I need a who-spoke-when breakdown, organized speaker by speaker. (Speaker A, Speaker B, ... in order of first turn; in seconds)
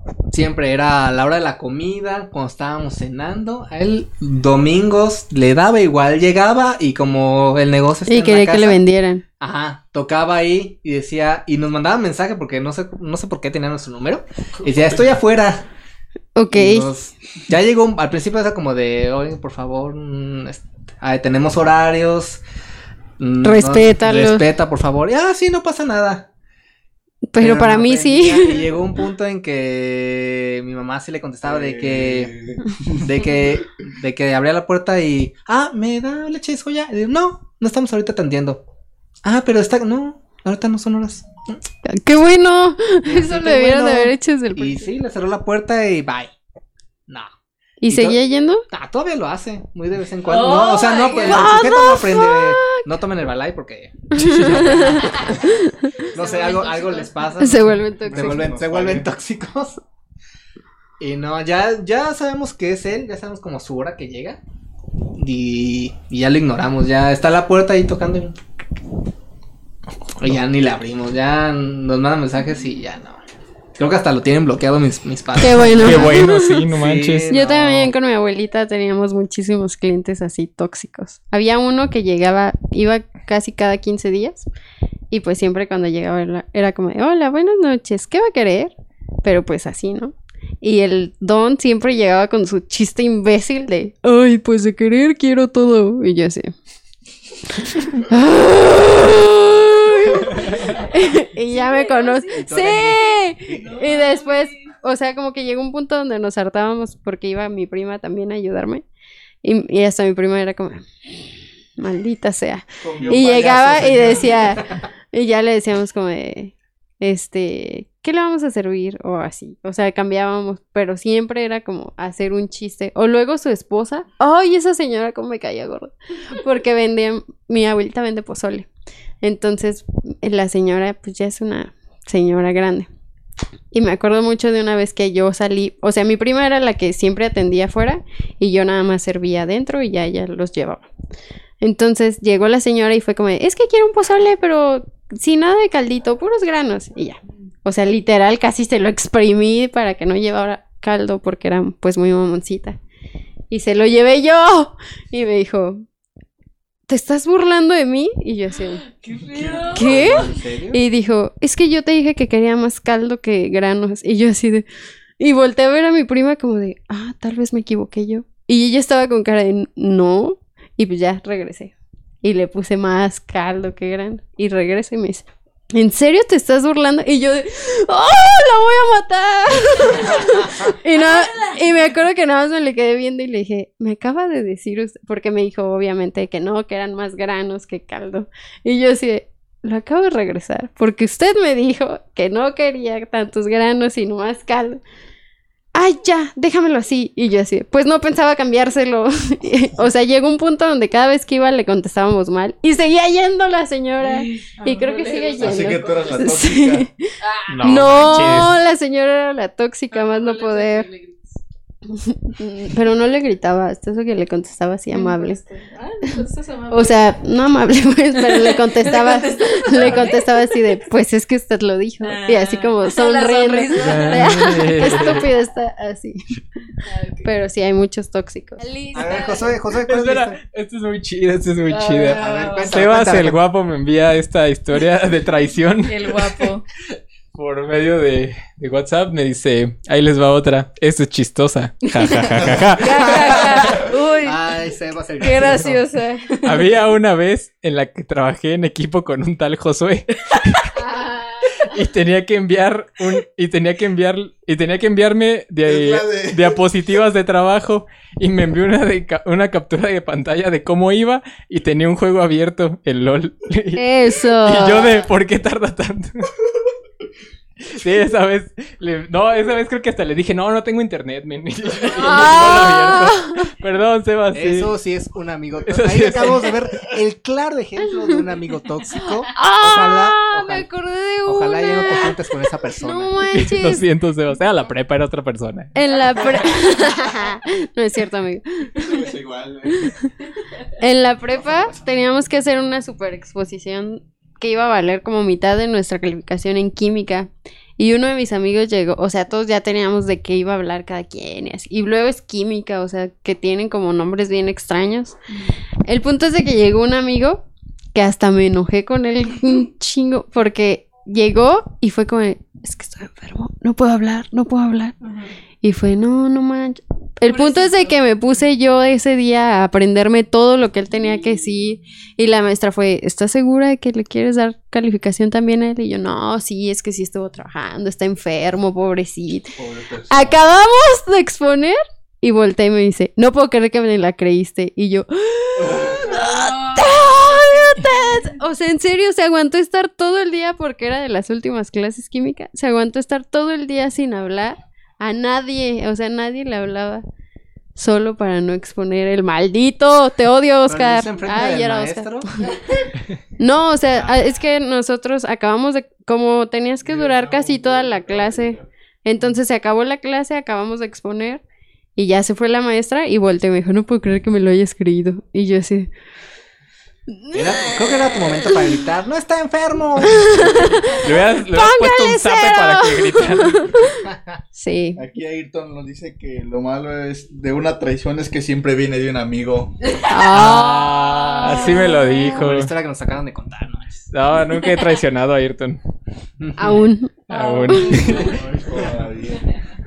Speaker A: 0.3-8.8, 9.4-15.7, 16.5-22.4, 23.2-26.3, 27.4-32.3, 32.9-38.6, 39.2-41.6, 43.0-46.3, 47.9-48.2, 48.7-55.4, 56.1-59.8, 61.0-64.4, 65.2-68.3, 70.2-73.2, 73.8-77.9, 102.3-103.7, 159.7-160.8, 228.9-230.4, 232.1-233.4, 243.6-245.7, 274.3-280.7, 281.2-283.1, 350.7-352.3, 353.9-354.4, 367.3-370.8, 374.1-374.4, 380.3-384.1, 386.4-386.8
Speaker B: 8.1-9.2, 16.3-16.9, 23.4-24.4, 27.3-28.7, 41.8-44.9, 47.8-48.6, 50.9-52.8, 54.1-56.1, 57.4-58.6, 75.4-76.7, 77.3-84.5, 85.1-88.7, 89.2-96.5, 97.5-108.8, 109.4-128.7, 129.2-132.9, 133.7-140.9, 141.6-152.8, 153.5-155.8, 156.9-158.8, 159.7-164.7, 165.2-171.7, 172.2-194.8, 195.7-206.9, 207.6-210.9, 211.9-215.4, 216.7-226.2, 227.2-228.6, 250.8-251.6, 263.7-265.0, 271.9-273.4, 279.3-282.1, 282.7-283.8, 285.7-289.1, 290.8-305.1, 305.9-315.0, 315.6-329.5, 330.1-347.0, 347.7-361.4, 361.9-365.9, 367.1-368.3, 370.0-375.0, 380.1-382.3, 386.6-388.0
Speaker C: 31.4-33.1, 58.1-59.0, 112.8-114.6, 159.3-160.2, 205.4-206.9, 255.6-256.6, 288.7-289.9, 329.6-330.4, 335.6-336.1, 356.8-358.7, 374.9-379.8, 388.0-389.4
Speaker D: 50.3-51.3, 56.2-57.3, 101.5-102.4, 103.6-104.7, 158.8-160.0, 181.0-181.5, 204.0-205.9, 207.2-207.9, 209.9-211.4, 214.9-217.0, 218.1-220.6, 222.0-225.2, 226.8-227.3, 228.6-229.5, 231.7-232.8, 235.9-236.6, 241.9-244.4, 245.2-246.7, 315.0-315.3, 317.2-318.0, 336.1-338.0, 387.3-388.4
Speaker E: 54.2-55.1, 75.8-77.3, 207.5-208.6, 223.8-225.2, 229.9-236.3, 237.3-243.7, 246.4-250.8, 251.6-266.3, 267.6-274.7, 275.7-276.5, 283.3-285.7, 371.0-373.7, 380.4-382.7, 384.1-385.8, 387.3-388.4